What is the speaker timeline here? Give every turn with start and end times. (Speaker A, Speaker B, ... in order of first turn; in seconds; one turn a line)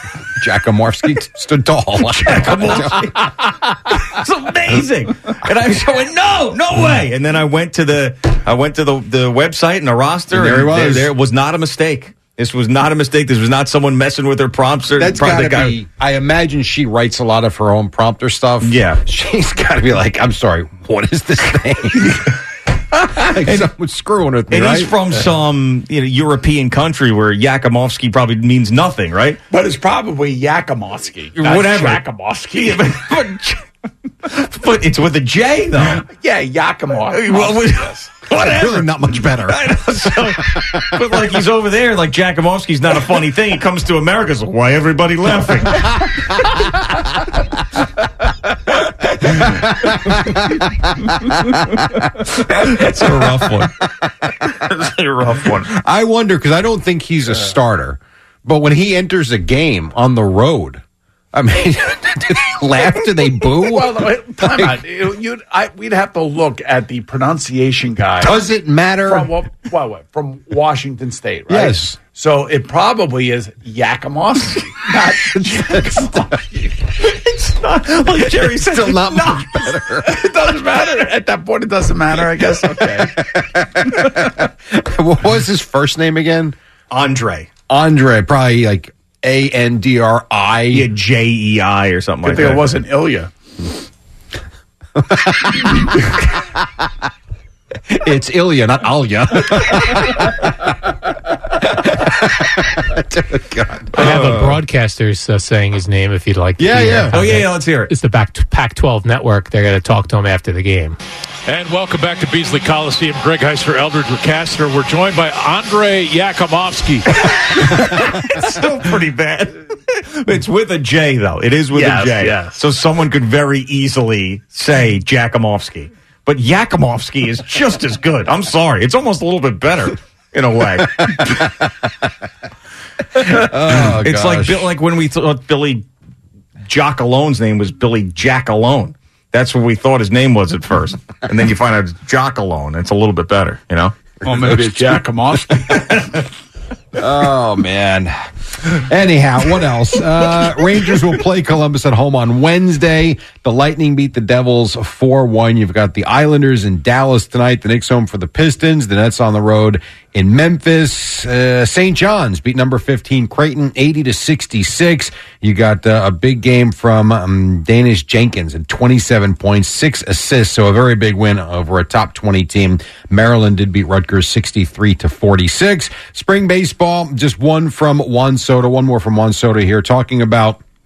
Speaker A: 0.4-3.3
Speaker B: 2.1-15.7
Speaker A: 10.3-11.1
Speaker A: 15.0-22.2
Speaker B: 18.6-19.0
Speaker A: 23.1-24.9
Speaker B: 23.2-23.7
Speaker B: 24.5-29.4
Speaker C: 29.5-32.9
Speaker B: 31.4-32.0
Speaker B: 32.5-33.6
Speaker B: 34.2-36.0
Speaker C: 35.8-38.2
Speaker B: 37.1-46.5
Speaker A: 38.3-39.7
Speaker A: 40.3-40.6
Speaker A: 49.4-51.6
Speaker B: 52.4-53.7
Speaker A: 53.4-53.6
Speaker B: 54.5-55.7
Speaker A: 55.7-60.8
Speaker A: 61.3-64.8
Speaker C: 63.6-68.5
Speaker A: 68.2-69.3
Speaker C: 69.0-76.6
Speaker A: 71.5-72.0
Speaker A: 75.4-76.4
Speaker B: 77.0-80.0
Speaker A: 78.2-80.2
Speaker C: 80.0-83.2
Speaker A: 82.8-86.5
Speaker B: 86.9-87.5
Speaker A: 87.7-90.9
Speaker B: 90.7-92.7
Speaker C: 92.2-93.3
Speaker A: 95.0-96.0
Speaker A: 97.9-100.7
Speaker A: 101.6-104.6
Speaker D: 103.9-111.0
Speaker A: 106.6-107.4
Speaker B: 107.1-107.9
Speaker E: 111.5-117.0
Speaker B: 117.2-131.4
Speaker C: 121.7-122.6
Speaker A: 130.8-131.6
Speaker A: 133.2-134.7
Speaker B: 133.3-135.8
Speaker B: 136.7-143.9
Speaker A: 144.2-145.0
Speaker C: 144.2-146.1
Speaker A: 147.0-148.1
Speaker A: 148.6-180.6